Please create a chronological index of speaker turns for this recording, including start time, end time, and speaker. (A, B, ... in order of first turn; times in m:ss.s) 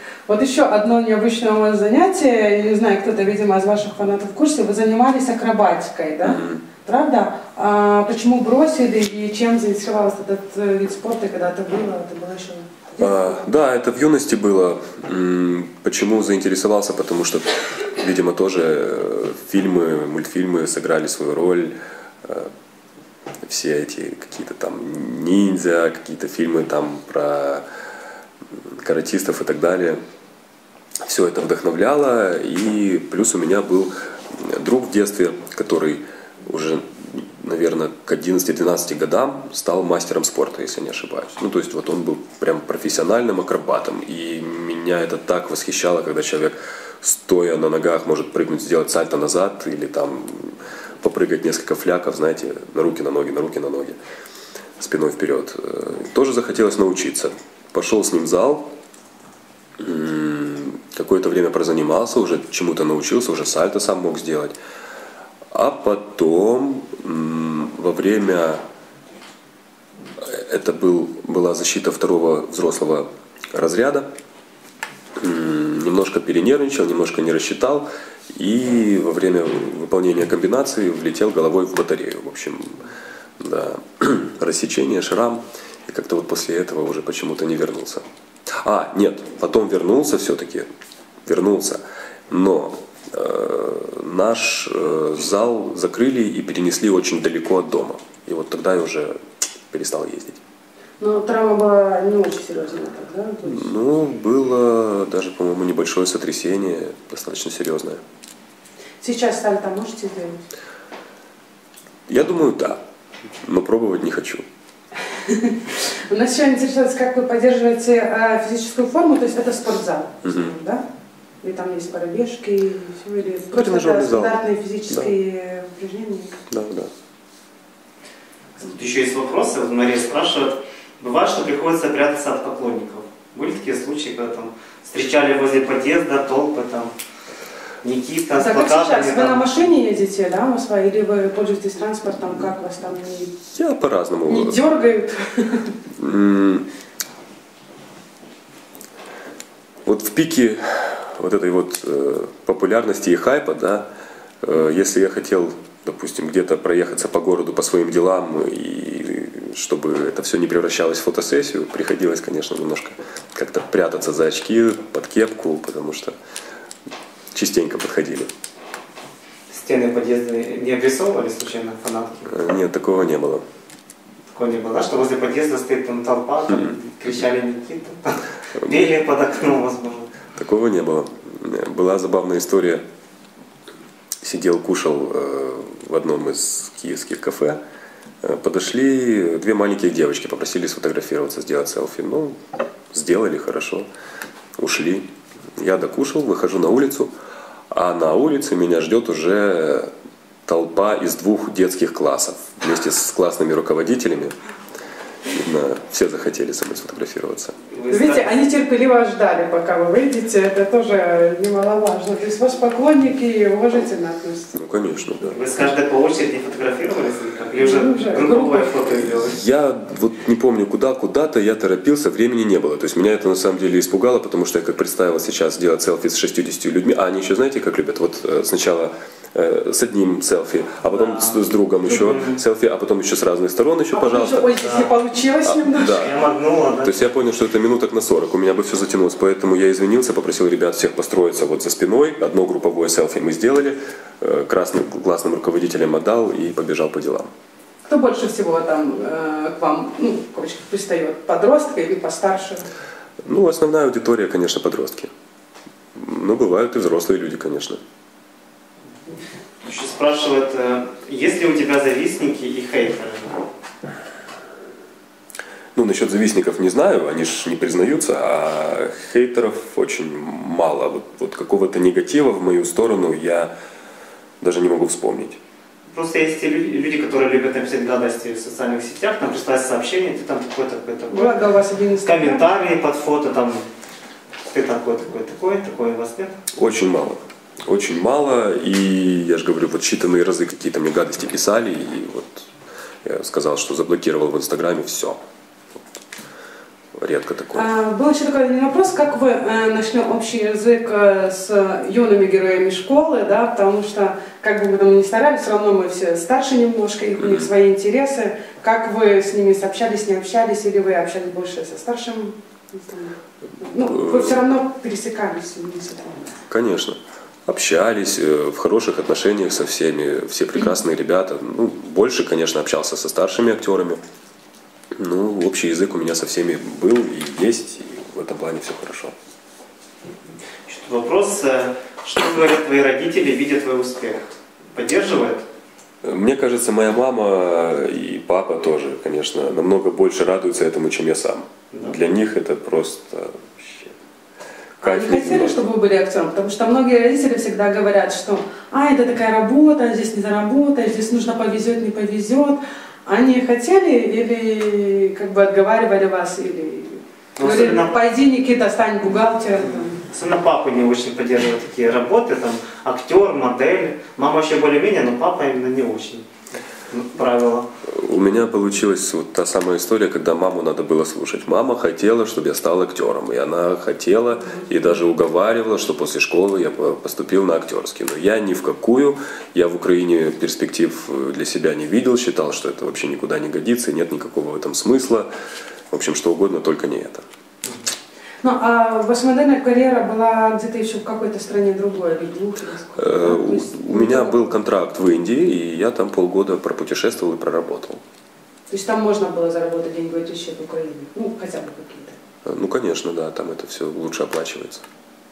0:00.3-0:13.4 A
0:06.2-0:06.6 B
0:13.0-0:22.5 B
0:23.4-0:27.6 B
0:28.6-0:30.0 B
0:31.0-0:54.0 B
0:54.8-0:58.7 B
0:59.8-1:04.5 B
1:05.5-1:08.6 B
1:10.2-1:14.1 B
1:15.2-1:22.8 B
1:23.4-1:28.0 B
1:28.6-1:30.7 B
1:31.2-1:39.1 B
1:39.7-1:40.4 B
1:41.0-1:43.7 A
1:43.4-1:48.0 B
1:49.0-1:50.4 A
1:52.1-1:52.8 B
1:53.4-1:54.4 B
1:55.1-2:00.8 A
2:00.2-2:00.5 B
2:01.4-2:06.4 A
2:03.4-2:05.1 B
2:06.5-2:06.9 B
2:08.6-2:16.9 C
2:17.8-2:19.5 C
2:18.3-2:23.3 A
2:23.5-2:24.6 B
2:24.3-2:25.7 A
2:26.0-2:26.6 B
2:29.8-2:33.9 B
2:34.4-2:46.2 B
2:47.3-2:48.3 B
2:49.5-2:52.3 C
2:52.3-2:53.4 B
2:54.3-3:00.1 C
3:00.3-3:02.8 B
3:04.2-3:07.6 B
3:08.2-3:12.4 B
3:12.9-3:13.9 B
3:14.6-3:17.1 B
3:17.7-3:19.9 B
3:20.4-3:24.3 B
3:25.3-3:27.6 B
3:27.7-3:28.3 C
3:27.9-3:34.5 A
3:34.5-3:35.4 B
3:35.3-3:39.4 C
3:37.6-3:38.7 A
3:38.9-3:54.6 B
3:51.2-3:52.4 C
3:53.9-3:56.1 A
3:55.4-3:56.1 B
3:55.8-3:57.1 C
3:56.8-4:07.3 B
4:07.8-4:12.6 A
4:13.2-4:15.1 B
4:15.9-4:17.8 B
4:19.6-4:23.4 C
4:25.7-4:33.5 B
4:34.4-4:35.4 B
4:35.9-4:41.3 C
4:41.1-4:42.5 A
4:42.0-4:43.6 C
4:44.5-4:46.4 C
4:46.5-4:52.5 B
4:53.0-4:55.2 B
4:56.9-4:57.7 B
4:57.5-5:16.3 A
5:13.8-5:14.4 B
5:16.5-5:24.0 B
5:25.0-5:29.1 B
5:30.7-5:35.4 C
5:36.0-5:43.9 B
5:44.8-6:00.0 A
5:44.8-5:45.6 B
5:57.4-5:58.0 C
5:59.9-6:06.3 C
6:06.9-6:07.7 C
6:07.8-6:25.3 B
6:25.9-6:27.2 B
6:28.4-6:34.6 A
6:32.9-6:38.0 B
6:38.7-6:42.2 A
6:42.4-6:44.8 B